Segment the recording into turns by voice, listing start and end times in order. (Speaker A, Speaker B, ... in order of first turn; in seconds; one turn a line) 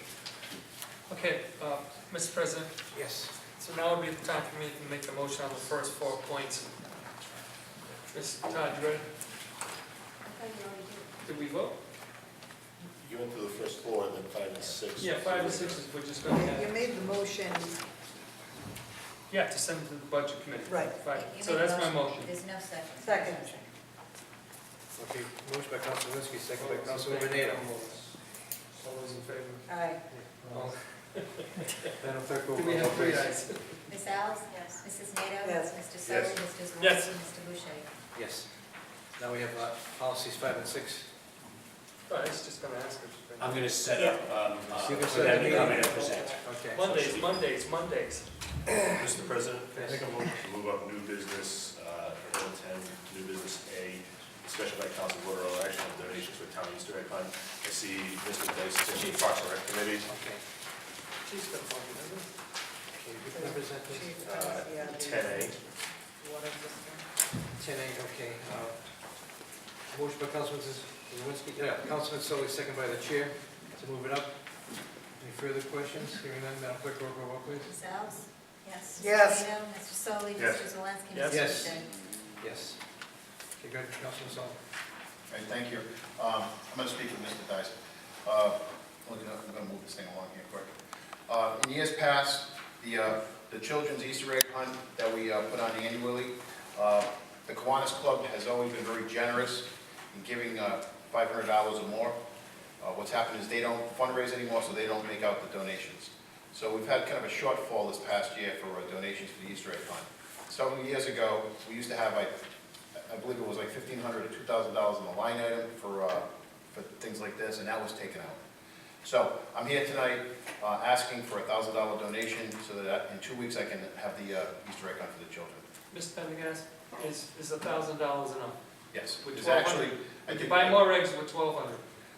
Speaker A: 1.1-2.8
Speaker B: 2.9-3.3
Speaker A: 3.5-6.8
Speaker A: 8.1-9.1
Speaker C: 10.2-11.1
Speaker A: 11.2-11.8
Speaker D: 13.0-15.9
Speaker A: 14.9-17.0
Speaker E: 16.3-17.7
Speaker A: 19.3-22.3
Speaker E: 20.6-21.0
Speaker C: 21.0-23.7
Speaker E: 21.6-22.0
Speaker E: 23.0-23.6
Speaker B: 24.9-27.7
Speaker A: 26.5-28.1
Speaker A: 28.8-29.7
Speaker E: 29.6-30.0
Speaker B: 30.1-30.7
Speaker A: 30.5-31.9
Speaker B: 32.0-33.4
Speaker A: 32.5-33.9
Speaker C: 33.9-37.9
Speaker E: 35.4-35.8
Speaker D: 36.0-36.4
Speaker A: 36.8-37.2
Speaker B: 38.1-38.5
Speaker B: 39.1-41.1
Speaker A: 42.1-43.7
Speaker F: 43.4-44.4
Speaker D: 44.1-45.8
Speaker B: 44.7-47.1
Speaker F: 45.0-46.4
Speaker A: 45.2-45.7
Speaker E: 45.5-46.3
Speaker A: 46.6-48.3
Speaker D: 46.9-47.4
Speaker D: 48.8-60.1
Speaker B: 49.8-50.1
Speaker B: 60.0-60.4
Speaker A: 61.2-62.3
Speaker B: 63.0-64.1
Speaker E: 63.3-65.5
Speaker D: 64.2-65.6
Speaker E: 66.2-67.0
Speaker B: 67.5-77.7
Speaker C: 77.6-81.9
Speaker E: 79.0-79.5
Speaker D: 80.4-80.6
Speaker A: 81.1-81.5
Speaker B: 81.3-81.8
Speaker B: 82.4-82.8
Speaker B: 83.6-84.6
Speaker G: 85.3-90.7
Speaker G: 91.3-102.2
Speaker G: 102.8-112.3
Speaker G: 113.0-118.4
Speaker G: 119.0-125.6
Speaker A: 125.9-128.6
Speaker G: 128.9-130.8
Speaker A: 129.2-131.8